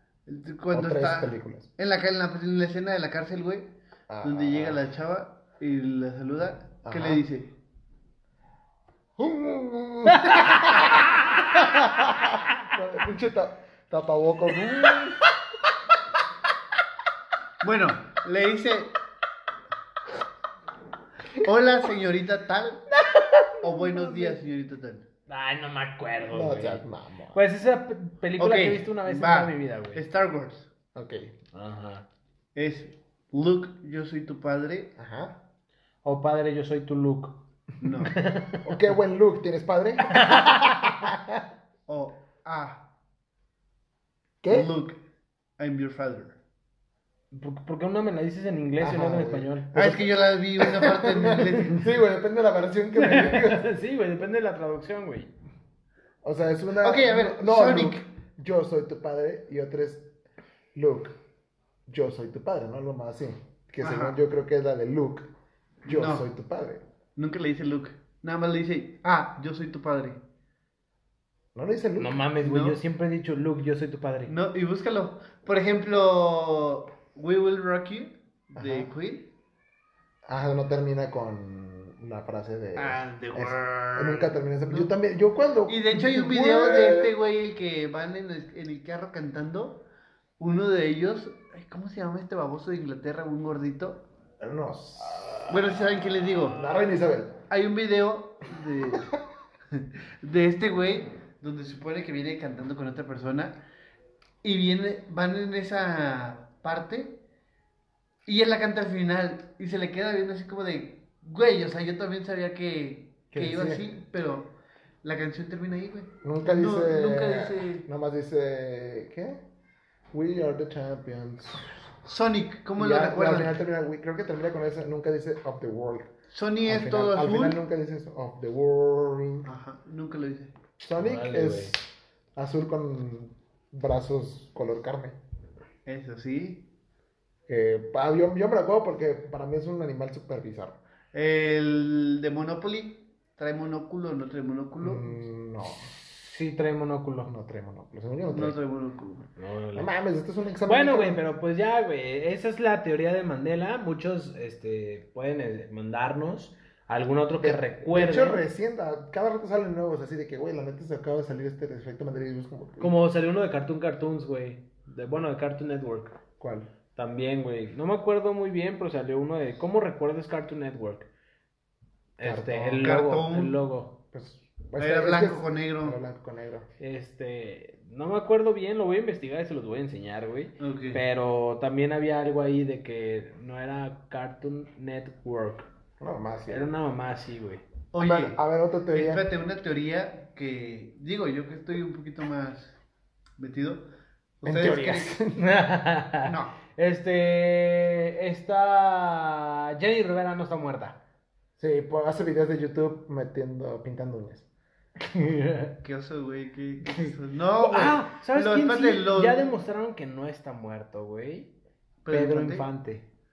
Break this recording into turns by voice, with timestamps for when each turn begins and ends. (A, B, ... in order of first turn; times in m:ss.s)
0:00.3-0:07.5 A
0:00.7-0:01.7 B
0:04.1-0:04.8 B
0:06.8-0:07.2 B
0:09.2-0:15.3 B
0:10.1-0:12.0 C
0:17.6-0:19.0 A
0:21.4-0:22.9 A
0:23.1-0:24.2 C
0:23.6-0:25.1 A
0:25.3-0:30.0 C
0:26.3-0:27.4 B
0:28.4-0:30.7 A
0:31.0-0:31.4 B
0:31.5-0:32.1 C
0:32.6-0:34.9 A
0:35.0-0:35.4 B
0:36.0-0:37.4 C
0:37.8-0:38.2 A
0:38.0-0:38.8 C
0:38.6-0:41.4 B
0:40.1-0:40.9 C
0:41.9-0:42.9 A
0:44.4-0:44.7 B
0:44.5-0:45.0 A
0:45.6-0:46.4 A
0:47.3-0:49.8 C
0:48.8-0:53.7 B
0:49.7-0:51.9 A
0:53.0-0:55.3 C
0:56.2-1:00.1 B
0:56.8-0:58.0 A
1:00.7-1:01.2 B
1:01.9-1:05.3 B
1:03.8-1:04.2 A
1:05.8-1:06.3 A
1:05.9-1:06.8 B
1:07.2-1:10.2 A
1:11.6-1:12.2 B
1:12.0-1:14.4 C
1:12.4-1:12.8 A
1:14.3-1:19.3 A
1:18.6-1:18.9 B
1:20.3-1:27.2 B
1:22.8-1:24.9 A
1:25.7-1:29.8 A
1:30.4-1:34.0 A
1:34.4-1:35.6 B
1:35.5-1:36.6 A
1:36.5-1:37.4 B
1:37.5-1:39.2 A
1:39.7-1:43.6 A
1:44.4-1:47.2 A
1:48.3-1:54.5 A
1:53.3-1:53.9 B
1:55.0-1:57.9 A
1:56.2-1:59.4 B
2:00.1-2:01.8 B
2:02.0-2:03.6 A
2:02.8-2:06.1 B
2:06.3-2:07.6 A
2:06.6-2:09.5 B
2:09.4-2:10.5 A
2:10.8-2:15.2 B
2:11.0-2:11.8 C
2:15.9-2:16.7 A
2:17.5-2:20.8 B
2:21.1-2:25.1 A
2:24.8-2:25.9 B
2:26.2-2:27.3 C
2:27.3-2:28.6 B
2:28.3-2:29.3 A
2:29.4-2:29.9 C
2:29.8-2:31.2 B
2:30.7-2:38.4 C
2:37.4-2:42.9 B
2:42.8-2:46.2 C
2:46.4-2:46.7 B
2:47.0-2:51.1 C
2:52.2-2:54.0 C
2:52.2-2:53.0 B
2:52.8-2:53.6 A
2:54.1-2:56.7 B
2:54.8-2:56.0 A
2:56.8-3:05.7 C
3:00.6-3:01.0 A
3:06.0-3:06.7 B
3:06.5-3:07.6 C
3:07.9-3:08.4 A
3:08.0-3:09.3 B
3:08.9-3:12.8 A
3:13.4-3:13.9 A
3:14.4-3:15.2 A
3:14.4-3:15.4 B
3:15.4-3:21.0 C
3:16.2-3:16.6 A
3:21.6-3:24.5 B
3:25.0-3:25.8 C
3:25.8-3:29.6 A
3:26.9-3:31.5 C
3:32.0-3:32.7 A
3:32.1-3:33.0 C